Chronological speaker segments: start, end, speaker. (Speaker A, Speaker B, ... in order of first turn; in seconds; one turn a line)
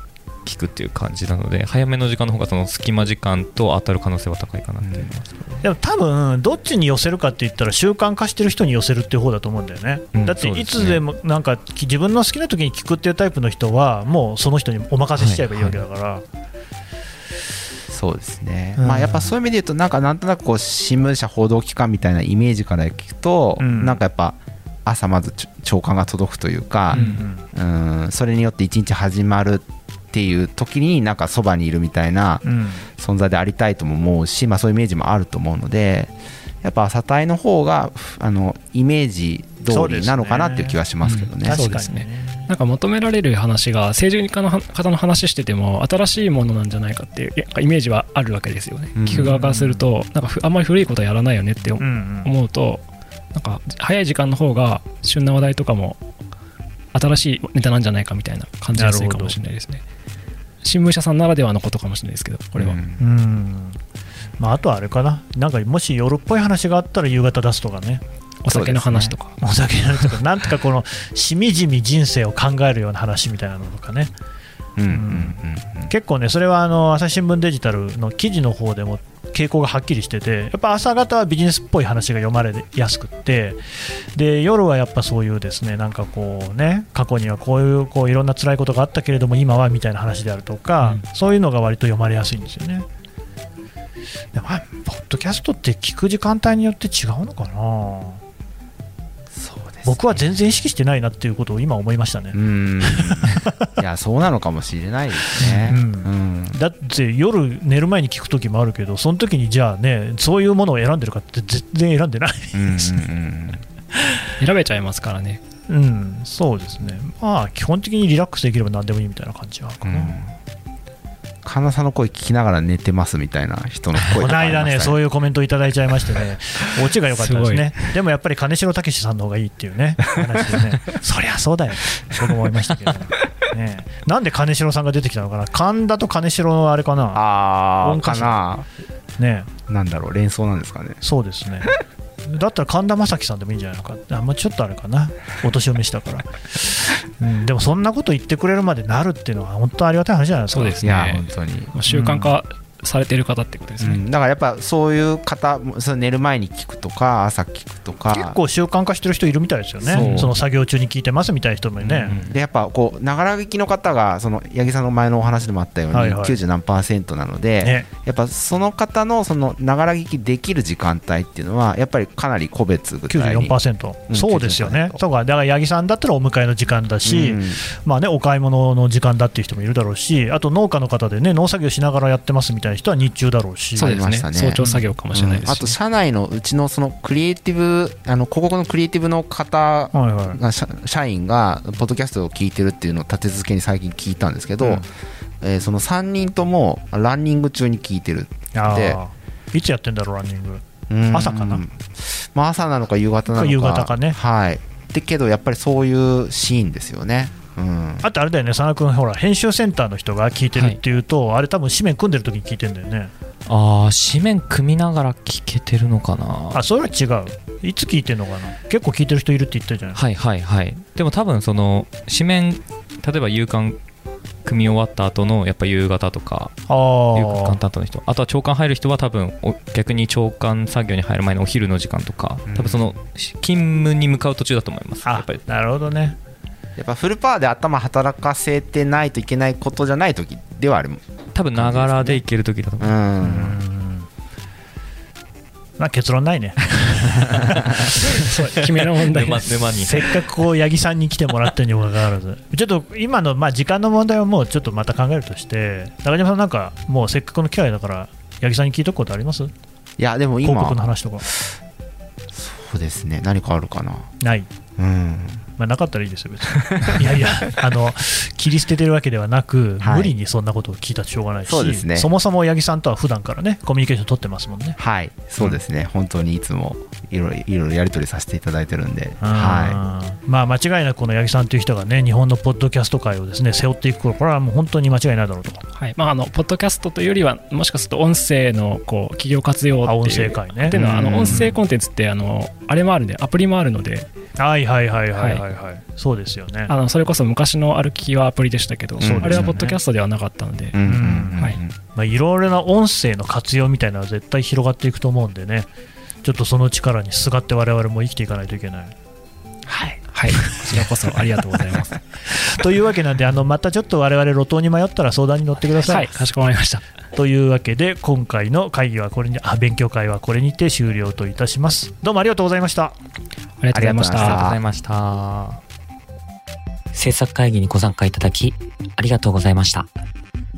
Speaker A: 0.5-5.6
Speaker B: 4.8-5.1
Speaker C: 5.6-16.2
Speaker A: 10.2-11.0
Speaker A: 15.2-15.8
Speaker B: 17.9-32.4
Speaker C: 18.8-19.3
Speaker C: 23.6-24.0
Speaker C: 26.9-27.5
Speaker D: 26.9-27.2
Speaker C: 32.4-32.9
Speaker B: 33.0-41.6
Speaker C: 39.7-40.8
Speaker D: 41.0-56.0
Speaker C: 41.4-42.5
Speaker B: 49.0-49.3
Speaker C: 49.1-49.9
Speaker C: 51.8-52.3
Speaker D: 56.9-59.8
Speaker C: 58.8-59.4
Speaker D: 60.6-62.8
Speaker B: 62.6-63.0
Speaker C: 63.0-63.8
Speaker C: 64.4-68.0
Speaker D: 68.4-69.4
Speaker B: 68.5-69.2
Speaker C: 69.4-74.1
Speaker B: 74.8-75.9
Speaker C: 74.9-83.6
Speaker C: 84.2-92.9
Speaker C: 94.3-98.2
Speaker B: 99.3-100.0
Speaker C: 99.8-103.7
Speaker B: 102.3-106.6
Speaker C: 105.3-113.0
Speaker B: 112.5-113.6
Speaker C: 113.9-114.3
Speaker D: 114.4-115.4
Speaker C: 115.7-120.2
Speaker B: 119.8-120.3
Speaker B: 121.4-125.0
Speaker C: 124.0-137.2
Speaker D: 127.2-127.9
Speaker B: 137.1-138.7
Speaker C: 137.8-138.4
Speaker C: 139.2-139.5
Speaker B: 139.7-141.0
Speaker C: 141.0-151.2
Speaker D: 150.5-154.0
Speaker B: 150.8-151.7
Speaker C: 151.9-152.4
Speaker B: 153.8-158.4
Speaker C: 158.1-162.2
Speaker B: 159.8-160.3
Speaker D: 159.9-160.3
Speaker B: 161.8-173.6
Speaker C: 165.9-166.4
Speaker C: 167.6-167.9
Speaker C: 173.1-183.9
Speaker B: 174.1-175.0
Speaker B: 177.1-177.6
Speaker D: 183.8-185.8
Speaker B: 183.8-194.9
Speaker C: 184.6-184.9
Speaker C: 189.9-190.4
Speaker B: 195.4-199.0
Speaker C: 198.6-201.6
Speaker B: 200.9-208.1
Speaker C: 203.3-204.2
Speaker C: 208.0-213.1
Speaker A: 213.5-216.6
Speaker C: 216.5-220.0
Speaker A: 220.0-223.8
Speaker A: 224.4-226.6
Speaker C: 226.7-227.6
Speaker A: 227.2-235.4
Speaker B: 232.5-233.0
Speaker C: 235.1-236.2
Speaker B: 236.8-241.0
Speaker A: 241.3-242.9
Speaker B: 241.5-242.2
Speaker B: 242.8-243.6
Speaker C: 243.2-244.1
Speaker C: 245.8-247.6
Speaker D: 248.0-249.7
Speaker A: 249.0-250.2
Speaker C: 249.7-259.5
Speaker B: 260.0-261.6
Speaker C: 260.4-261.3
Speaker B: 262.3-264.1
Speaker C: 264.2-264.5
Speaker B: 264.8-265.5
Speaker C: 265.6-274.8
Speaker B: 266.6-267.5
Speaker B: 269.8-270.1
Speaker B: 271.4-272.1
Speaker B: 274.8-279.8
Speaker C: 279.2-285.6
Speaker D: 285.8-294.1
Speaker C: 289.8-291.6
Speaker B: 290.7-291.5
Speaker C: 294.4-296.7
Speaker D: 295.2-295.4
Speaker D: 296.7-300.8
Speaker B: 299.0-299.7
Speaker C: 299.0-299.8
Speaker B: 300.7-301.8
Speaker C: 300.8-301.4
Speaker C: 301.9-305.7
Speaker C: 306.2-308.9
Speaker D: 310.1-312.0
Speaker C: 312.3-316.3
Speaker D: 315.9-316.8
Speaker C: 317.1-322.9
Speaker D: 323.6-324.4
Speaker B: 323.7-324.6
Speaker A: 324.1-325.6
Speaker E: 326.9-329.9